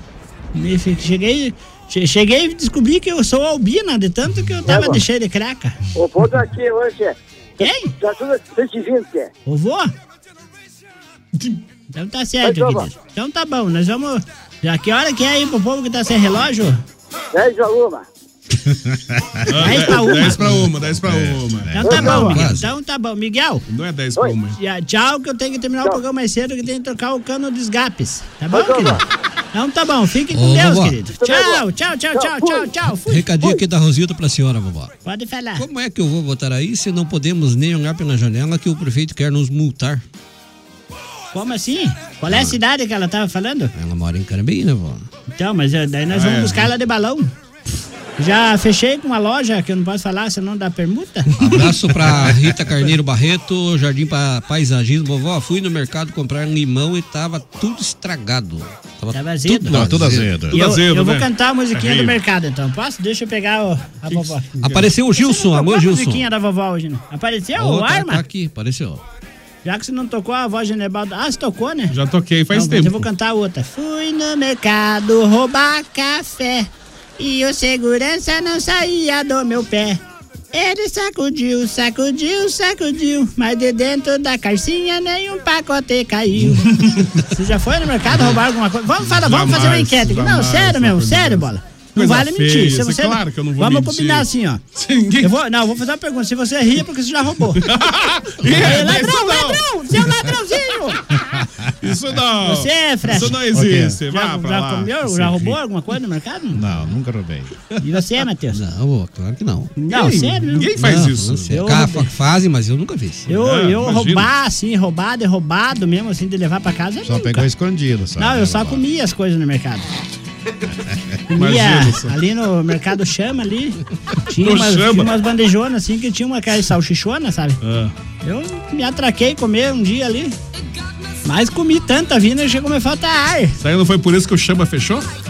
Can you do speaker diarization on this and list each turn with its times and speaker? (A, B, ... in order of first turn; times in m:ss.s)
0:00.5-0:05.8 A
0:04.7-0:05.0 B
0:06.0-0:07.1 B
0:07.6-0:07.9 A
0:08.0-0:09.3 B
0:09.5-0:09.9 A
0:11.9-0:16.8 A
0:12.4-0:12.9 B
0:17.3-0:18.0 B
0:18.6-0:22.4 C
0:19.5-0:21.8 D
0:19.6-0:20.4 A
0:21.8-0:23.6 A
0:21.8-0:22.3 B
0:21.9-0:22.7 E
0:23.7-0:24.6 D
0:24.6-0:29.0 A
0:28.5-0:29.0 B
0:29.5-0:33.6 A
0:30.3-0:31.0 E
0:31.1-0:32.7 B
0:33.1-0:34.9 E
0:35.0-0:35.6 A
0:35.6-0:40.0 E
0:41.3-0:43.7 A
0:42.3-0:42.6 E
0:43.7-0:45.1 E
0:45.3-0:47.3 A
0:46.1-0:46.7 D
0:48.2-0:51.3 A
0:51.4-1:00.4 E
0:51.4-0:52.9 D
0:59.1-0:59.8 A
0:59.6-1:00.6 C
1:00.5-1:02.2 D
1:00.5-1:04.5 A
1:04.1-1:04.9 D
1:04.6-1:06.3 E
1:05.1-1:08.2 A
1:07.6-1:09.0 E
1:09.6-1:11.9 A
1:11.9-1:13.1 D
1:12.5-1:20.0 A
1:20.5-1:34.6 A
1:26.7-1:27.2 D
1:29.0-1:35.3 D
1:35.2-1:37.7 A
1:37.6-1:39.6 D
1:38.5-1:41.0 A
1:41.3-1:41.7 C
1:41.8-1:45.6 D
1:42.4-1:43.4 A
1:43.4-1:44.0 C
1:44.1-1:46.6 A
1:46.5-1:47.6 C
1:47.8-1:48.6 A
1:48.5-1:49.8 E
1:49.8-1:51.6 D
1:49.9-1:50.7 A
1:50.8-1:53.3 E
1:51.5-1:52.1 A
1:53.3-1:57.5 A
1:53.3-1:54.3 D
1:57.0-1:58.8 C
1:58.2-1:59.9 A
2:01.3-2:07.6 A
2:01.4-2:02.1 D
2:04.4-2:05.1 D
2:07.6-2:07.9 D
2:08.2-2:10.4 A
2:11.2-2:13.6 A
2:13.6-2:15.1 D